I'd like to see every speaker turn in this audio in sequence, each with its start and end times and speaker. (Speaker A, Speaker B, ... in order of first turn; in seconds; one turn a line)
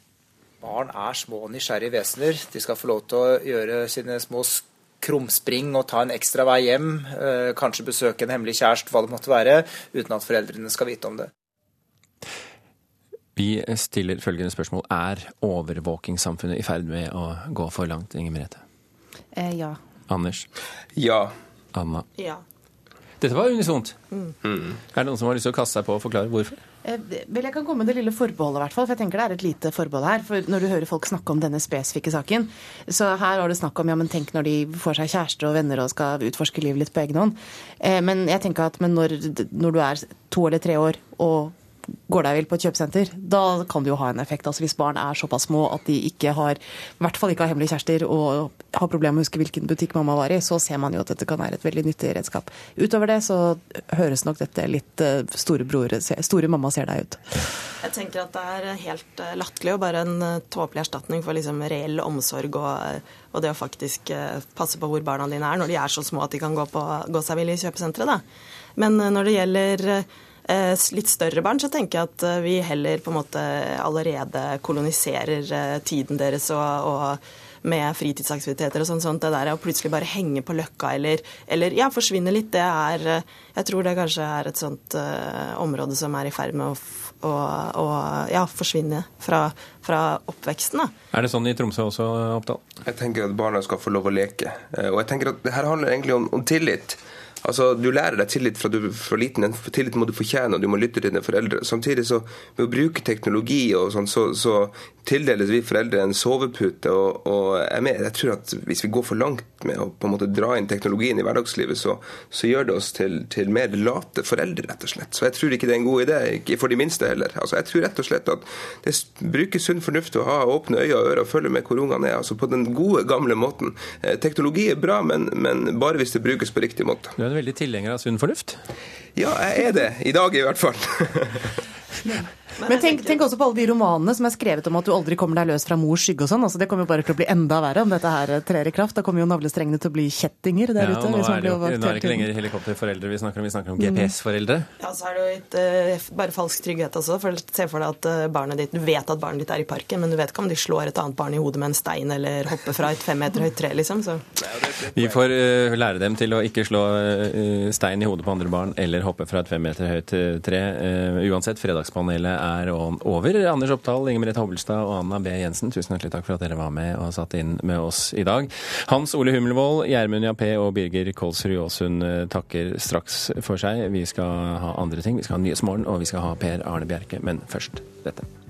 Speaker A: 0.6-11.3
Speaker B: 13.3-18.6
Speaker C: 19.3-19.8
Speaker B: 20.1-20.5
Speaker D: 20.9-21.3
Speaker B: 21.7-22.1
Speaker E: 22.1-22.4
Speaker B: 23.2-24.0
Speaker D: 24.4-24.7
Speaker B: 24.9-26.6
Speaker C: 26.8-41.5
Speaker C: 42.1-57.2
Speaker E: 57.8-68.2
Speaker E: 68.8-90.9
Speaker B: 91.1-92.6
Speaker D: 92.8-127.1
Speaker B: 127.2-128.6
Speaker D: 129.2-131.5
Speaker E: 132.6-133.2
Speaker C: 132.7-142.3
Speaker B: 140.8-144.7
Speaker C: 143.8-144.1
Speaker E: 144.8-154.2
Speaker D: 154.4-155.1
Speaker B: 154.9-178.3